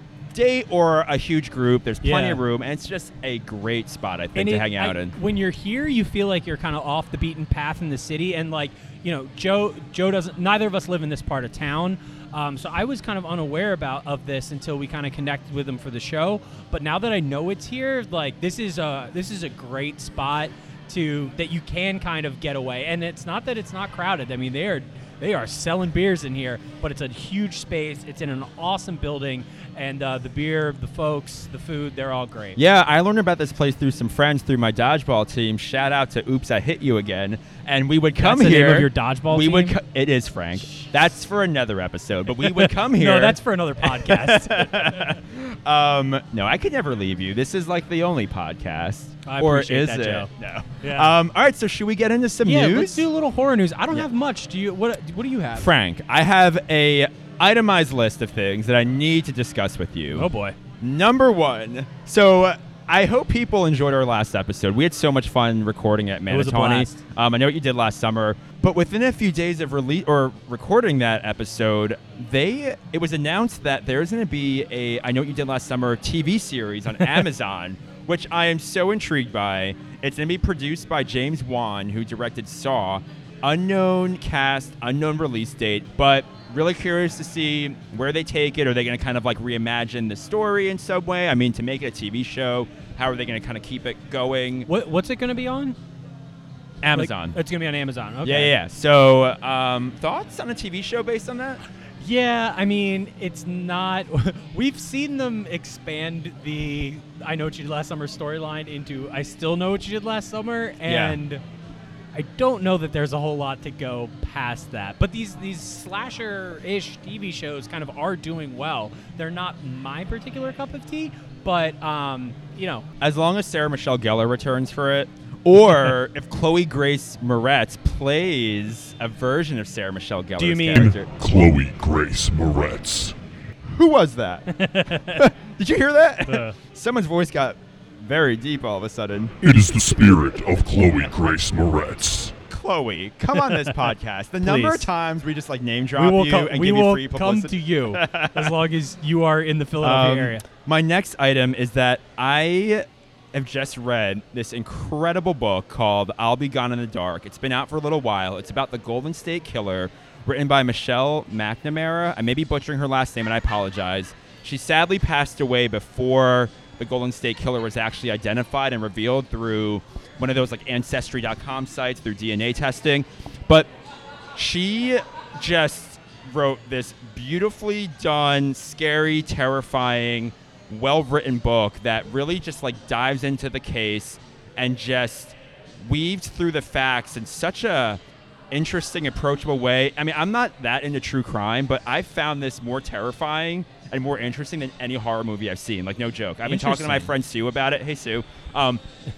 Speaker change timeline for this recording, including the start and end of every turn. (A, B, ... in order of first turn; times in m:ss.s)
0:00.3-0:05.1 A
0:02.0-0:02.4 B
0:04.3-0:32.6 B
0:32.6-0:53.0 A
0:38.2-0:39.8 B
0:40.6-0:40.9 B
0:42.4-0:45.0 B
0:49.2-0:50.3 B
0:50.8-0:51.1 B
0:52.4-0:55.7 B
0:55.5-1:00.3 A
1:00.1-1:00.6 B
1:00.8-1:34.7 A
1:06.3-1:07.0 B
1:34.7-1:35.8 B
1:36.8-1:37.4 A
1:36.9-1:38.5 B
1:38.2-1:41.6 A
1:42.0-1:51.4 B
1:50.8-1:51.2 A
1:52.1-2:02.8 B
2:03.0-2:11.3 A
2:10.4-2:10.9 B
2:10.8-2:13.1 C
2:13.6-2:14.5 A
2:14.5-2:15.3 B
2:15.0-2:20.2 A
2:16.3-2:16.5 B
2:19.4-2:22.3 C
2:22.5-2:28.5 A
2:23.3-2:23.8 B
2:24.4-2:24.9 B
2:25.9-2:30.4 B
2:29.8-2:53.7 A
2:54.3-3:18.8 A
3:16.4-3:17.1 B